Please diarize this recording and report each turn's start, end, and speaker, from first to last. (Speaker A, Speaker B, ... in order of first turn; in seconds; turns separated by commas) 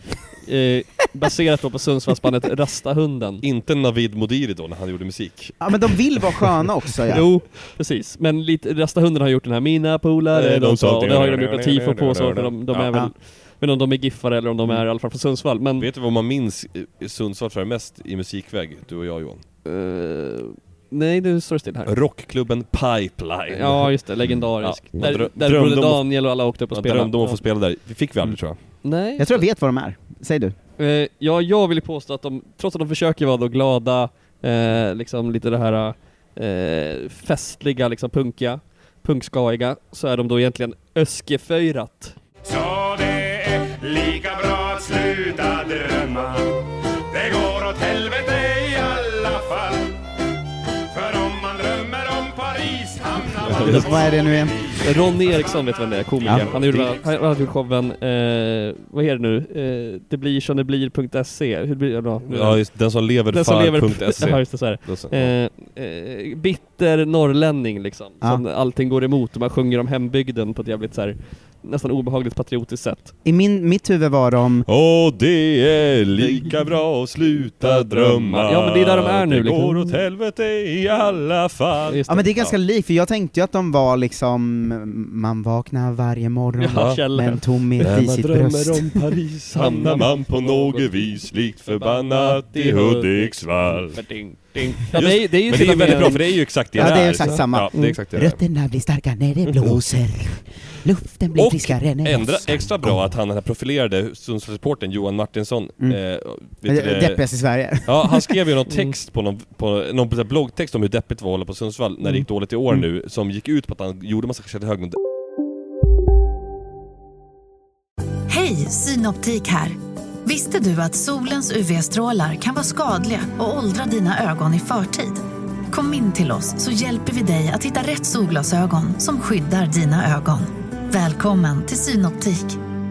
Speaker A: 0.4-3.4, Speaker B: 3.4-6.4, Speaker C: 5.6-7.2, Speaker A: 7.1-15.9, Speaker B: 10.3-13.1, Speaker B: 15.8-19.4, Speaker A: 19.6-21.9, Speaker B: 21.9-23.9, Speaker A: 23.5-27.4, Speaker B: 24.4-26.0, Speaker B: 26.7-28.6, Speaker A: 28.8-29.4, Speaker C: 29.2-30.5, Speaker A: 30.8-42.1, Speaker D: 42.5-46.5, Speaker D: 47.1-49.8, Speaker D: 51.0-53.3, Speaker C: 53.5-54.6, Speaker A: 54.8-62.6, Speaker C: 56.2-56.9, Speaker B: 62.3-65.3, Speaker A: 63.3-73.1, Speaker C: 73.2-74.7, Speaker B: 74.7-82.5, Speaker A: 77.6-80.0, Speaker A: 81.8-82.3, Speaker C: 82.1-89.1, Speaker A: 86.6-87.4, Speaker B: 86.7-87.0, Speaker B: 87.8-94.0, Speaker A: 89.5-96.3, Speaker B: 94.9-98.4, Speaker C: 96.7-103.0, Speaker A: 96.8-98.0, Speaker B: 99.4-100.2, Speaker B: 101.3-107.2, Speaker C: 106.7-108.3, Speaker B: 107.8-115.0, Speaker E: 118.3-132.6